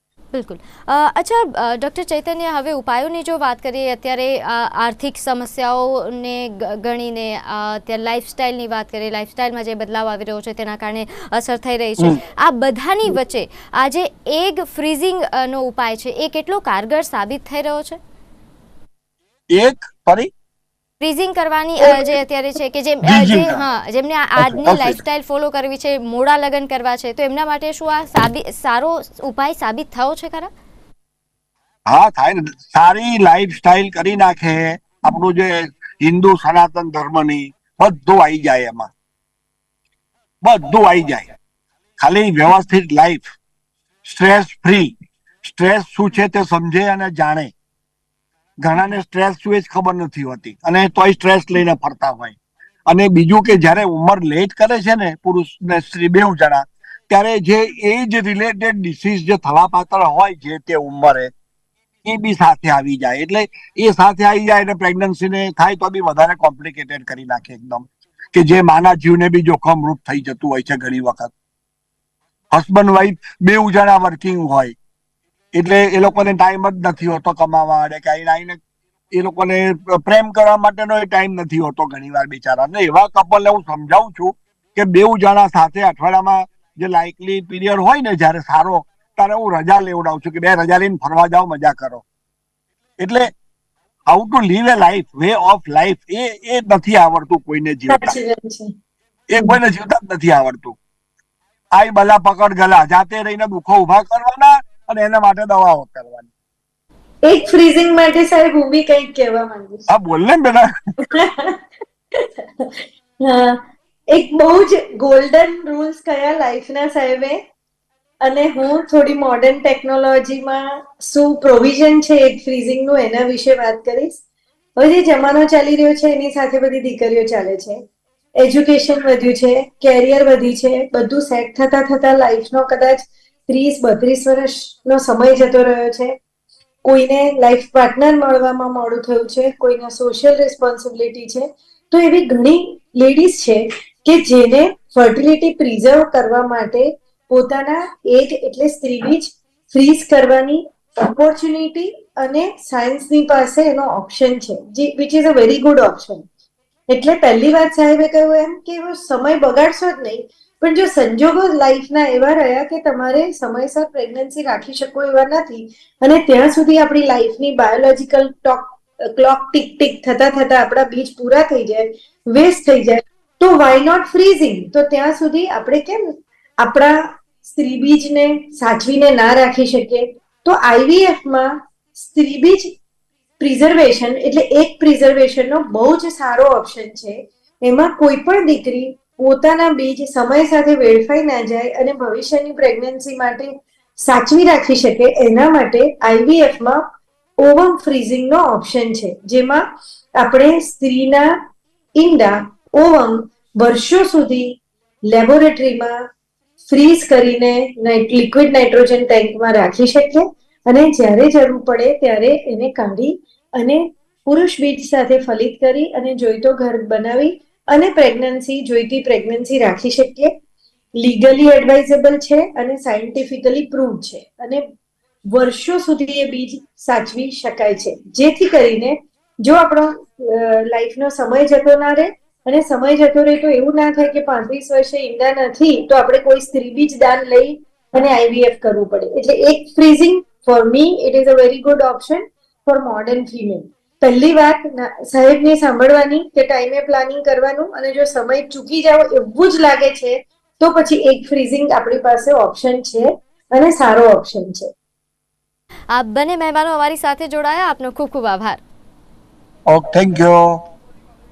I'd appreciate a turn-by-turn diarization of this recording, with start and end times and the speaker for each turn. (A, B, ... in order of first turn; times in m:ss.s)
0:00.3-0:18.0 A
0:19.5-0:20.3 B
0:21.0-0:30.5 A
0:23.0-0:23.6 B
0:24.4-0:25.0 B
0:31.9-0:38.9 B
0:40.4-0:41.3 B
0:42.0-0:43.3 B
0:44.0-0:47.5 B
0:48.6-0:52.4 B
0:52.9-1:01.3 B
1:02.0-1:11.3 B
1:12.5-1:14.7 B
1:15.5-1:18.6 B
1:19.1-1:32.0 B
1:33.0-1:33.3 B
1:34.1-1:38.2 B
1:37.9-1:38.7 C
1:39.3-1:40.8 B
1:41.7-1:46.3 B
1:47.2-1:49.9 C
1:49.9-1:50.7 B
1:51.0-1:57.4 C
1:58.2-2:04.2 C
2:04.8-2:07.8 C
2:08.4-2:16.2 C
2:16.8-2:36.2 C
2:36.9-2:56.0 C
2:56.6-3:02.7 C
3:03.4-3:16.8 C
3:17.4-3:19.6 C
3:20.2-3:21.4 C
3:22.0-3:26.0 C
3:26.7-3:40.3 C
3:40.9-3:44.6 C
3:45.3-4:14.7 C
4:15.9-4:18.6 A
4:19.7-4:20.6 B